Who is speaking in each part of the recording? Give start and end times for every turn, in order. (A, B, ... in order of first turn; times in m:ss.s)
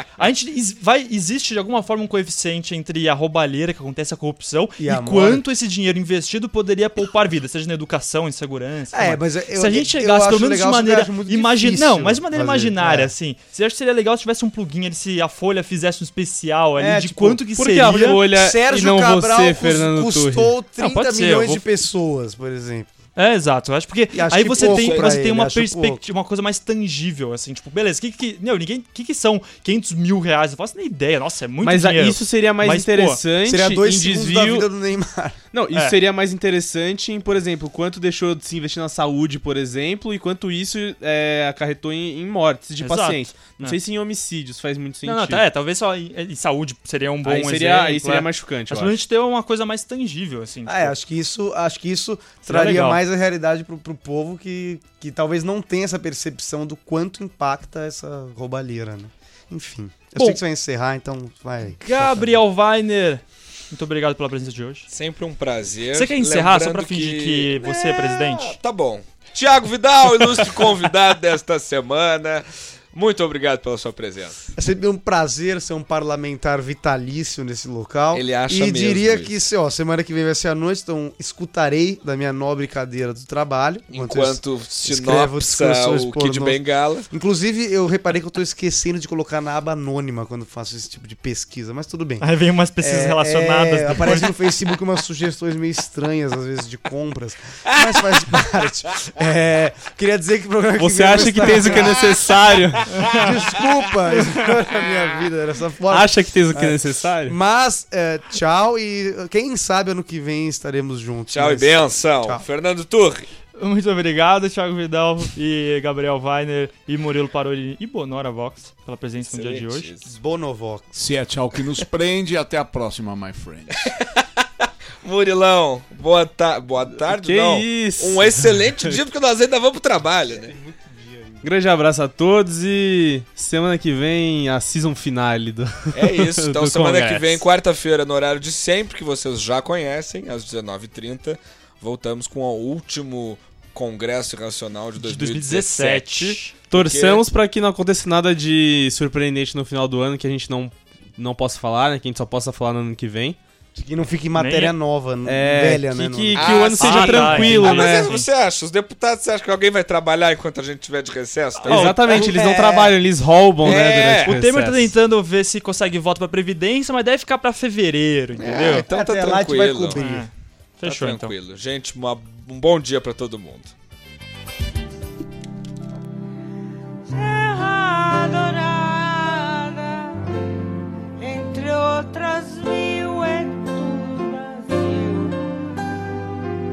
0:00.2-0:18.2 A
0:04.8-0:05.4 B
0:08.9-0:13.1 B
0:16.8-0:17.4 B
0:17.6-0:20.5 C
0:18.1-0:22.9 B
0:20.8-0:21.6 A
0:23.2-0:33.2 A
0:24.1-0:26.0 B
0:24.6-0:25.1 D
0:31.6-0:34.7 C
0:33.4-0:35.4 B
0:35.5-0:45.4 C
0:42.8-0:43.8 A
0:45.0-0:51.0 A
0:47.2-0:48.9 C
0:50.6-1:02.4 B
0:52.4-0:53.0 A
1:00.2-1:00.4 A
1:01.8-1:04.9 A
1:04.9-1:14.5 D
1:05.9-1:08.6 A
1:14.6-1:26.6 B
1:18.1-1:19.3 D
1:23.9-1:27.1 D
1:27.1-1:32.3 B
1:32.2-1:34.3 A
1:32.8-1:42.3 B
1:40.8-1:43.1 C
1:42.9-1:43.3 A
1:43.1-1:52.4 B
1:45.9-1:47.4 C
1:51.3-1:53.3 D
1:53.6-1:59.9 A
1:59.3-2:00.2 D
2:00.1-2:01.0 B
2:00.9-2:03.9 E
2:03.7-2:10.5 D
2:07.1-2:09.0 C
2:10.3-2:11.4 B
2:11.4-2:17.4 C
2:15.9-2:27.2 D
2:25.0-2:26.5 A
2:26.7-2:33.4 C
2:33.8-2:37.0 B
2:34.4-2:34.8 A
2:35.3-2:38.1 C
2:36.4-2:42.2 D
2:36.8-2:38.3 A
2:41.6-2:42.2 A
2:41.7-2:44.9 C
2:42.1-2:43.0 B
2:43.6-2:44.3 D
2:43.7-2:48.9 A
2:48.4-2:50.0 D
2:48.7-2:50.3 B
2:50.0-2:51.3 A
2:50.8-2:53.7 D
2:57.1-3:00.2 F
3:01.2-3:05.6 F